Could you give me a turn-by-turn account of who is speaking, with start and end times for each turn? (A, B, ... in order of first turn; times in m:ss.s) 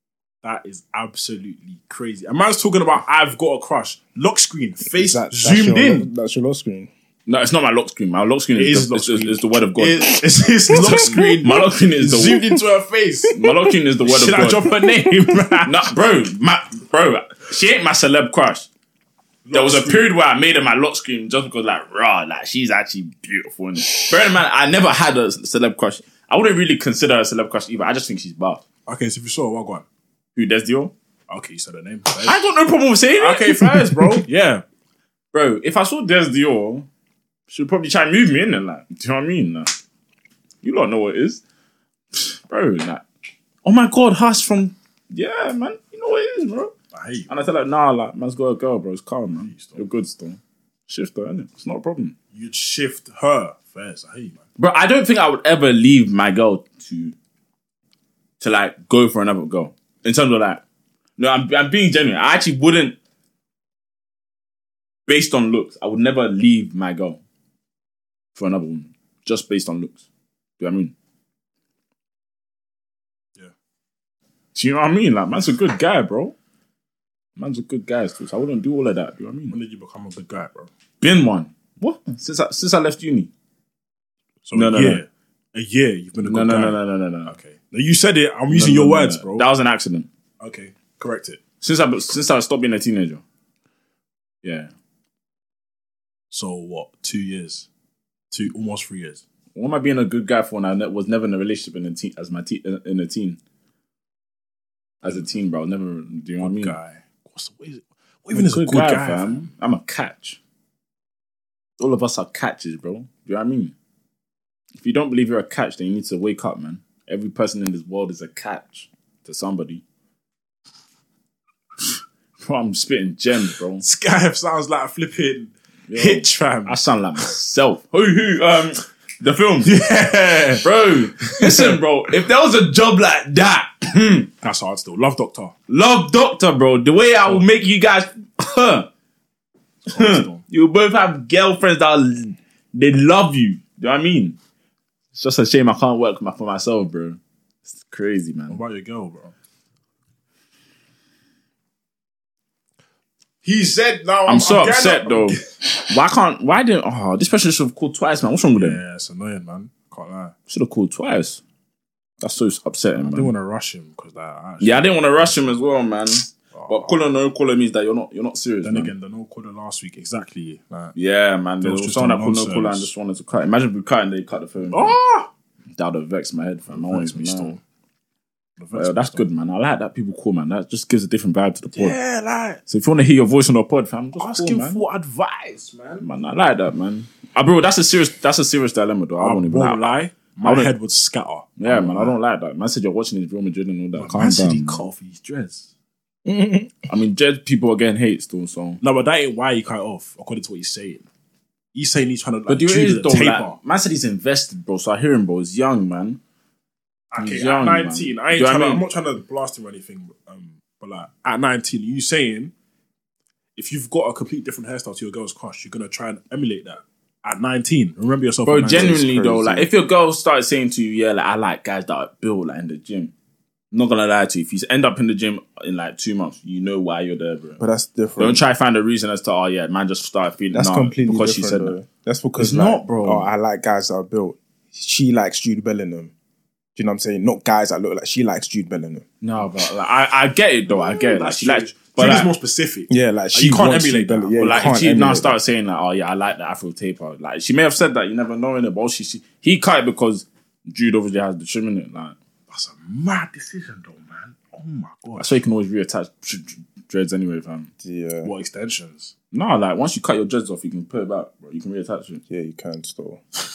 0:00.4-0:06.1 A
0:04.9-0:06.9 B
0:07.3-0:12.5 C
0:08.6-0:13.5 A
0:10.7-0:11.3 B
0:13.3-0:14.7 C
0:14.0-0:15.9 A
0:15.7-0:18.7 C
0:19.4-0:20.1 A
0:19.5-0:28.6 C
0:28.9-0:29.8 A
0:30.4-0:30.9 C
0:31.3-0:32.4 A
0:32.2-0:34.2 C
0:33.2-0:34.6 A
0:35.3-0:36.9 C
0:37.5-0:39.7 C
0:40.6-0:41.4 C
0:42.1-0:43.0 C
0:43.6-0:46.7 C
0:46.9-0:47.3 A
0:47.3-0:52.2 C
0:49.4-0:49.8 A
0:52.3-0:54.4 A
0:54.6-0:57.2 C
0:58.4-1:00.6 C
1:01.2-1:03.0 C
1:05.1-1:07.2 C
1:08.4-1:10.0 C
1:10.6-1:10.9 C
1:14.6-1:16.4 C
1:17.4-1:19.6 C
1:19.5-1:20.7 A
1:21.0-1:23.3 C
1:24.4-1:29.5 A
1:24.5-1:25.0 C
1:26.2-1:27.4 C
1:28.5-1:30.1 C
1:30.4-1:31.4 A
1:31.6-1:33.2 C
1:34.4-1:34.7 C
1:36.3-1:37.7 A
1:38.3-1:39.2 A
1:39.6-1:43.4 C
1:45.0-1:46.8 C
1:46.4-1:49.5 A
1:48.3-1:50.4 C
1:51.8-1:53.8 C
1:54.8-1:59.8 C
2:02.4-2:03.8 C
2:03.8-2:07.3 A
2:05.9-2:09.8 C
2:09.6-2:10.7 A
2:10.6-2:14.3 C
2:11.2-2:11.8 A
2:14.4-2:15.6 A
2:15.7-2:18.9 C
2:19.9-2:20.4 A
2:19.9-2:24.4 C
2:25.1-2:28.6 C
2:28.5-2:29.3 A
2:33.4-2:35.5 A
2:34.3-2:38.8 C
2:38.6-2:40.4 A
2:40.5-2:41.4 C
2:42.2-2:43.3 C
2:43.0-2:45.0 A
2:44.6-2:48.9 C
2:46.5-2:47.0 A
2:48.6-2:51.0 A
2:51.0-2:55.0 C
2:51.6-2:52.9 A
2:54.7-2:55.3 A
2:55.8-2:57.6 C
2:56.7-2:57.6 A
2:58.6-2:59.3 A
2:58.7-3:02.0 C
3:01.7-3:02.6 A
3:02.7-3:04.8 C
3:04.2-3:06.1 A
3:06.0-3:10.7 C
3:09.2-3:12.2 A
3:11.6-3:14.9 C
3:14.0-3:15.7 A
3:16.3-3:16.9 B
3:16.9-3:18.8 C
3:18.8-3:21.1 A
3:21.7-3:23.6 A
3:22.5-3:26.2 C
3:27.1-3:32.5 A
3:27.2-3:28.8 C
3:33.6-3:39.1 A
3:38.5-3:43.1 C
3:38.7-3:39.7 B
3:43.7-3:47.6 C
3:47.6-3:48.4 B
3:48.2-3:51.8 C
3:50.5-3:56.1 B
3:52.4-3:53.3 C
3:56.8-3:59.1 B
3:59.2-4:02.3 C
4:00.7-4:04.8 A
4:02.9-4:05.4 B
4:04.4-4:12.2 C
4:12.5-4:15.4 A
4:15.2-4:17.7 C
4:17.8-4:18.3 B
4:18.2-4:19.1 A
4:19.3-4:22.2 C
4:22.3-4:23.2 B